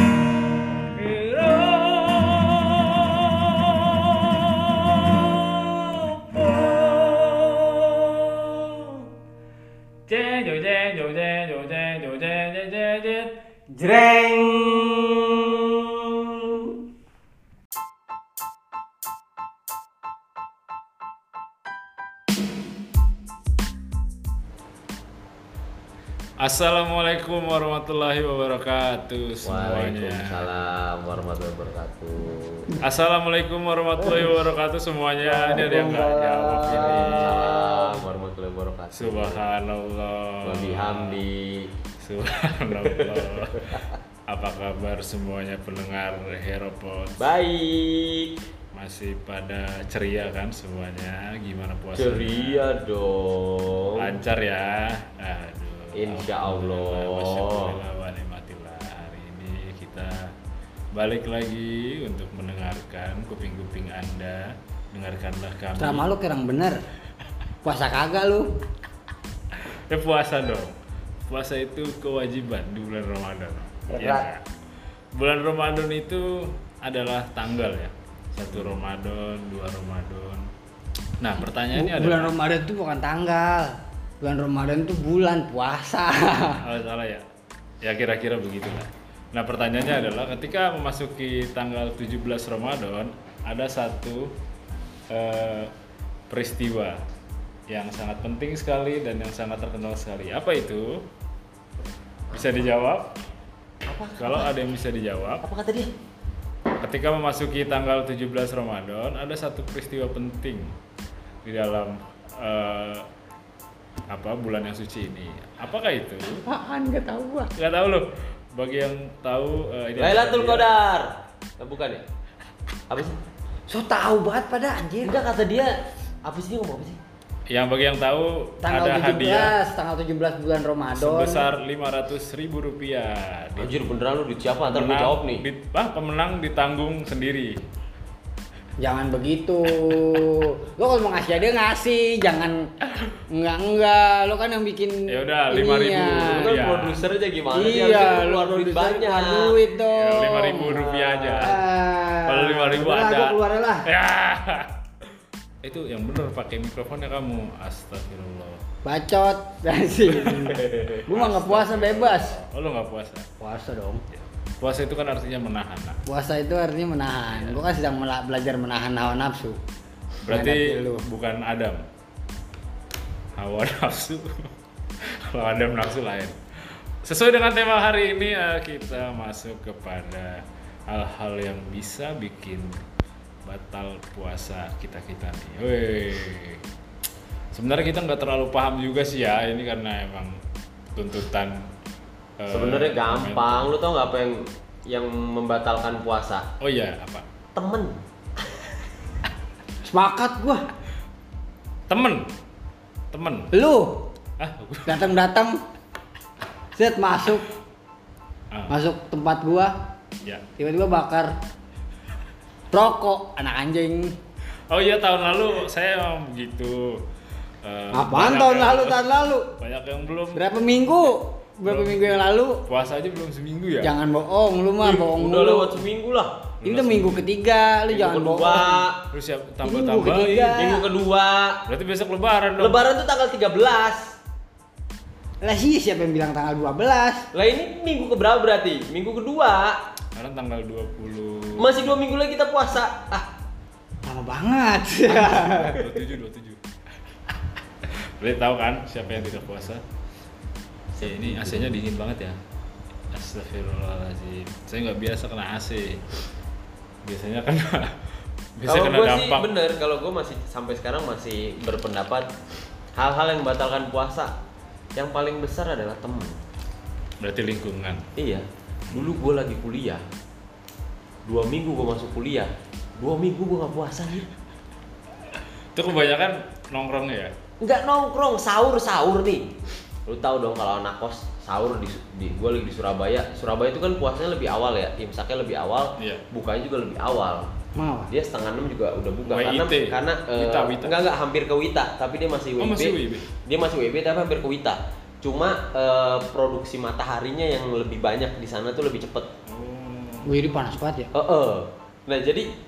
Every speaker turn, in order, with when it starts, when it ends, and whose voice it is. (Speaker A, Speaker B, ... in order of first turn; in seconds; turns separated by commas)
Speaker A: 0.6-9.1, Speaker A: 10.1-16.5, Speaker A: 26.4-30.4, Speaker B: 29.4-32.8, Speaker A: 32.8-37.6, Speaker C: 35.2-37.7, Speaker B: 36.6-39.4, Speaker A: 38.9-41.2, Speaker B: 40.4-41.7, Speaker A: 42.0-47.2, Speaker B: 42.8-43.9, Speaker B: 47.2-48.4, Speaker A: 48.7-52.6, Speaker B: 51.9-54.2, Speaker A: 54.0-60.3, Speaker B: 55.9-57.8, Speaker A: 60.9-66.1, Speaker C: 65.8-66.8, Speaker C: 67.6-68.5, Speaker A: 69.5-70.7, Speaker A: 71.3-74.4, Speaker C: 73.9-74.2, Speaker A: 75.2-80.5, Speaker A: 81.2-82.3, Speaker C: 81.7-86.6, Speaker A: 86.6-87.2, Speaker A: 87.8-94.3, Speaker A: 95.1-95.7, Speaker A: 96.3-97.0, Speaker A: 97.7-101.0, Speaker B: 102.3-102.5, Speaker A: 102.3-103.1, Speaker B: 103.8-104.5, Speaker A: 104.2-105.4, Speaker B: 105.4-105.9, Speaker A: 106.8-110.7, Speaker A: 111.4-113.1, Speaker A: 114.1-116.4, Speaker C: 116.5-117.5, Speaker A: 117.5-120.7, Speaker B: 120.0-122.0, Speaker B: 122.9-123.2, Speaker C: 123.7-125.2, Speaker B: 125.0-127.0, Speaker A: 127.5-129.5, Speaker C: 128.6-131.4, Speaker A: 130.9-133.7, Speaker B: 133.6-135.4, Speaker A: 134.7-137.6, Speaker C: 138.8-142.7, Speaker C: 143.3-146.4, Speaker A: 145.1-147.1, Speaker B: 146.3-149.6, Speaker C: 147.5-150.8, Speaker A: 149.9-151.6, Speaker B: 150.7-151.5, Speaker C: 151.4-153.9, Speaker A: 152.2-154.8, Speaker A: 155.6-158.6, Speaker C: 158.8-162.4, Speaker A: 160.1-163.3, Speaker C: 163.4-164.0, Speaker A: 164.1-166.0, Speaker C: 166.1-169.6, Speaker A: 167.3-167.6, Speaker A: 170.2-171.8, Speaker C: 170.3-171.0, Speaker A: 173.3-174.5, Speaker A: 175.0-176.4, Speaker A: 177.0-182.8, Speaker A: 183.4-186.6, Speaker A: 187.5-190.4, Speaker A: 190.9-191.7, Speaker A: 192.4-193.7, Speaker B: 192.5-196.5, Speaker A: 196.6-197.2, Speaker B: 197.5-198.4, Speaker C: 199.8-200.6, Speaker A: 201.9-202.3, Speaker A: 203.1-203.5, Speaker C: 203.5-204.1, Speaker A: 204.4-205.2, Speaker C: 204.8-205.6, Speaker C: 206.8-207.5, Speaker C: 208.7-209.7, Speaker C: 210.6-211.3, Speaker C: 212.7-214.2, Speaker A: 214.7-217.0, Speaker A: 217.6-219.1, Speaker C: 217.9-219.5, Speaker A: 219.6-221.1, Speaker C: 220.3-222.6, Speaker A: 221.6-223.9, Speaker C: 223.8-225.8, Speaker B: 224.8-226.5, Speaker A: 226.6-227.2, Speaker C: 226.6-228.8, Speaker B: 227.9-229.0, Speaker A: 229.1-230.7, Speaker C: 229.6-230.8, Speaker B: 230.5-231.6, Speaker A: 231.7-232.8, Speaker B: 232.6-234.1, Speaker C: 235.4-237.3, Speaker B: 237.3-239.8, Speaker A: 240.1-242.0, Speaker B: 241.6-243.3, Speaker C: 244.0-245.8, Speaker A: 245.1-246.6, Speaker A: 247.8-249.8, Speaker B: 250.9-251.7, Speaker A: 251.0-252.4, Speaker A: 253.1-256.0, Speaker A: 257.0-258.0, Speaker A: 258.6-259.5, Speaker B: 258.6-262.3, Speaker B: 262.9-264.3, Speaker B: 264.9-266.4, Speaker A: 267.2-268.1, Speaker B: 268.1-270.0, Speaker B: 271.2-274.3, Speaker A: 275.7-277.3, Speaker B: 277.6-279.5, Speaker B: 280.1-287.5, Speaker A: 286.0-286.2, Speaker C: 287.8-288.1, Speaker B: 288.1-299.3, Speaker A: 289.3-291.0, Speaker A: 292.6-293.2, Speaker A: 299.5-300.3, Speaker C: 300.2-301.1, Speaker B: 301.1-302.5